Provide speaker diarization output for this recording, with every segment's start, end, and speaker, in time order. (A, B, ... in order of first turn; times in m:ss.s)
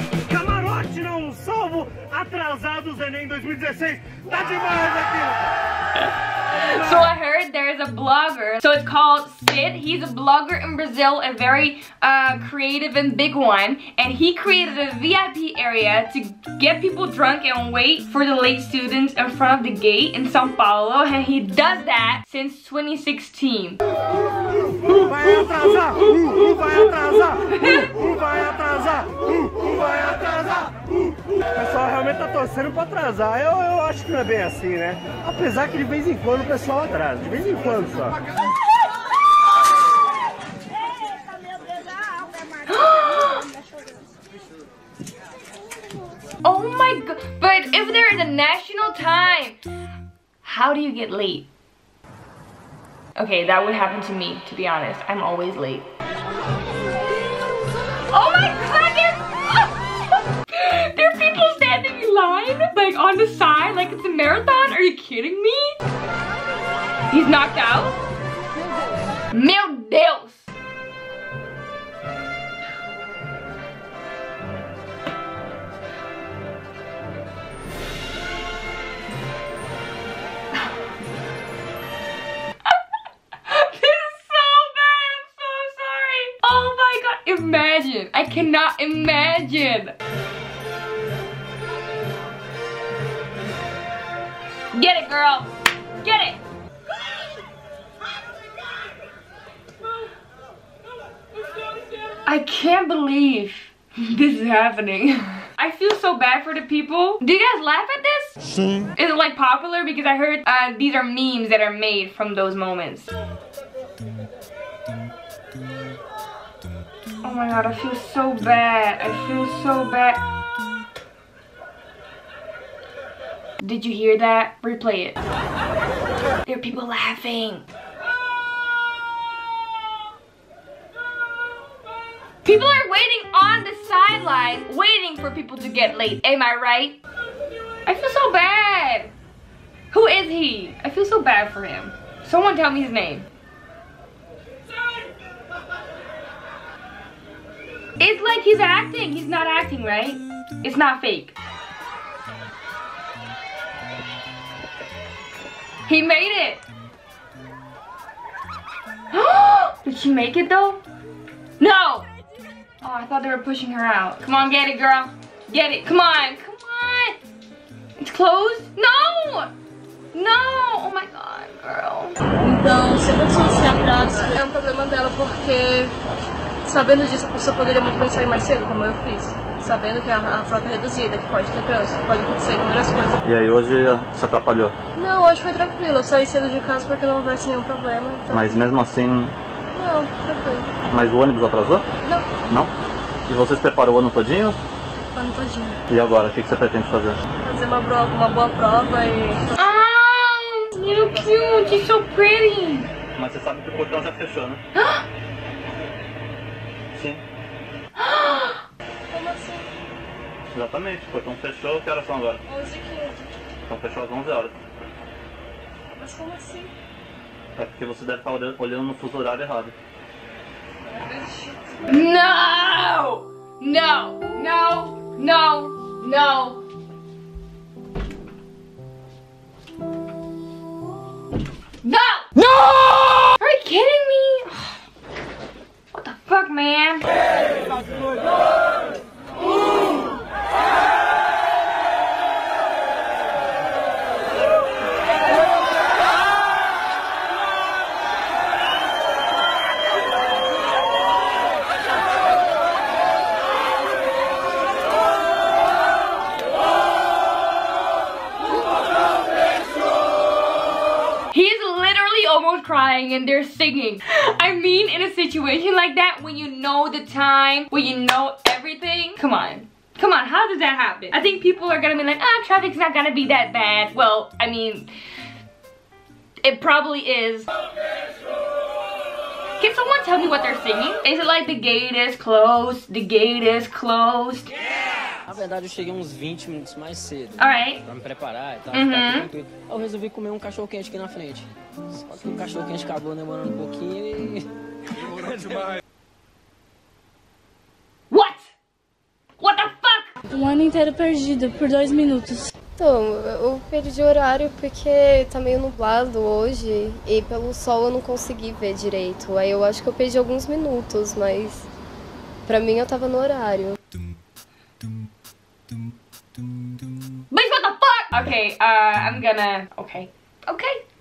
0:00.3-0:05.4 A
0:06.0-0:23.8 B
0:25.0-0:30.8 A
0:27.5-0:27.9 B
0:31.5-0:38.2 A
0:42.7-0:43.5 B
0:46.4-0:49.6 B
0:50.4-0:51.5 B
0:53.2-0:55.9 B
0:58.1-0:59.7 B
1:00.5-1:05.7 B
1:07.1-1:08.0 B
1:09.3-1:10.5 B
1:23.5-1:30.0 B
1:34.7-1:35.5 B
1:36.0-1:36.4 B
1:42.2-1:48.4 B
1:49.0-1:53.1 B
1:57.2-2:00.2 B
2:03.6-2:05.2 B
2:06.5-2:07.7 B
2:12.4-2:17.0 B
2:17.9-2:19.1 B
2:19.9-2:23.3 B
2:28.0-2:31.4 B
2:35.9-2:36.6 B
2:39.1-2:40.8 B
2:41.6-2:42.1 B
2:42.8-2:47.2 B
2:48.0-2:49.5 B
2:50.1-2:52.2 B
2:52.4-2:55.9 C
2:56.6-3:03.2 C
3:03.2-3:04.8 D
3:05.0-3:08.6 C
3:08.3-3:09.4 D
3:09.7-3:10.7 C
3:10.9-3:11.9 D
3:12.0-3:12.3 C
3:13.3-3:14.6 D
3:15.2-3:15.8 C
3:15.9-3:17.2 D
3:17.4-3:19.8 C
3:19.6-3:22.9 B
3:20.9-3:21.8 C
3:23.2-3:24.6 D
3:24.8-3:25.0 B
3:26.9-3:27.2 D
3:28.0-3:28.6 B
3:29.1-3:29.7 C
3:30.5-3:32.4 D
3:32.5-3:33.3 C
3:33.7-3:34.6 D
3:36.0-3:36.7 C
3:37.6-3:39.7 D
3:40.9-3:41.6 C
3:41.9-3:46.6 B
3:51.8-3:52.5 B
3:53.2-3:54.8 B
3:55.9-3:57.0 B
4:21.3-4:34.9 B
4:36.4-4:37.5 B
4:39.6-4:44.5 B
4:45.3-4:54.5 E
4:47.4-4:47.8 B
4:48.7-4:49.3 B
4:55.0-4:55.8 E
4:58.1-4:58.5 B
4:59.4-5:00.1 B
5:00.4-5:02.5 F
5:02.8-5:11.7 G
5:12.5-5:13.8 G
5:17.3-5:20.8 B